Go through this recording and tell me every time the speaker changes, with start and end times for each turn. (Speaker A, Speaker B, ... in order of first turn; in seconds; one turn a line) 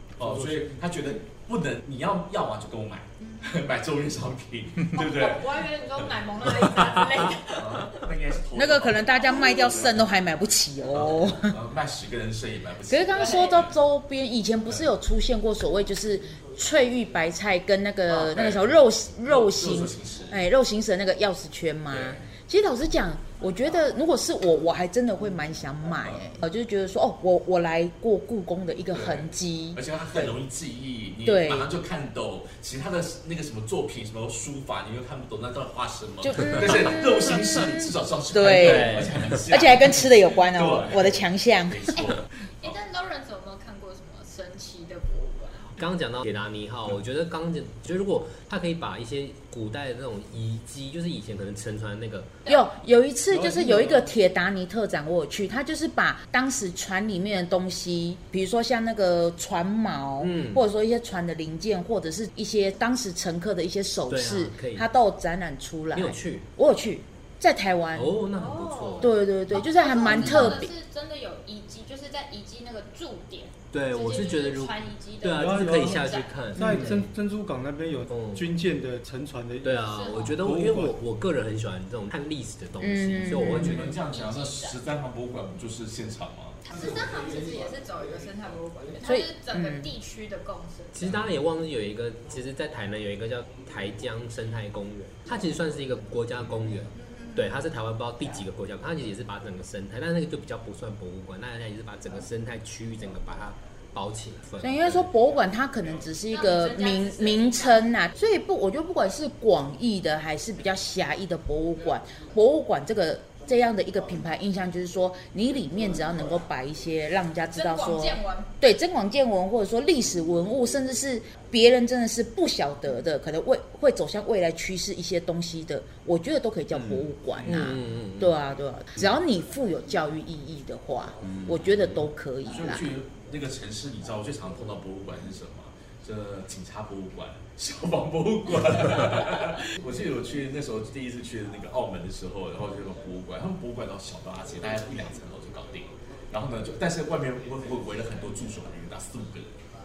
Speaker A: 0.2-5.5
Speaker B: 0.2-0.8
Speaker C: 3.2-3.7
Speaker C: 4.9-8.1
Speaker A: 7.5-10.2
Speaker D: 8.5-11.6
Speaker A: 10.9-13.7
Speaker D: 12.9-30.3
Speaker C: 13.1-13.7
Speaker A: 18.1-20.4
Speaker A: 21.9-22.2
Speaker A: 28.9-42.7
Speaker D: 31.2-31.7
Speaker D: 36.2-42.0
Speaker E: 38.5-39.5
Speaker C: 41.9-45.7
Speaker E: 45.8-52.3
Speaker C: 52.5-52.7
Speaker D: 52.5-68.2
Speaker B: 53.3-54.1
Speaker E: 60.2-60.6
Speaker E: 64.1-64.9
Speaker E: 65.9-66.5
Speaker E: 68.0-69.2
Speaker C: 68.3-77.0
Speaker D: 69.0-70.7
Speaker E: 70.0-70.6
Speaker E: 73.7-77.1
Speaker B: 75.3-81.0
Speaker D: 76.6-76.9
Speaker E: 78.1-78.5
Speaker E: 79.6-83.9
Speaker C: 79.9-80.4
Speaker D: 82.8-83.9
Speaker A: 83.3-86.6
Speaker C: 83.7-84.8
Speaker C: 86.6-91.2
Speaker D: 89.0-89.9
Speaker E: 90.9-105.1
Speaker A: 91.0-91.3
Speaker C: 96.9-97.5
Speaker D: 104.6-132.9
Speaker C: 106.3-107.9
Speaker C: 117.5-118.5
Speaker E: 126.7-128.4
Speaker E: 131.2-132.0
Speaker A: 132.5-149.5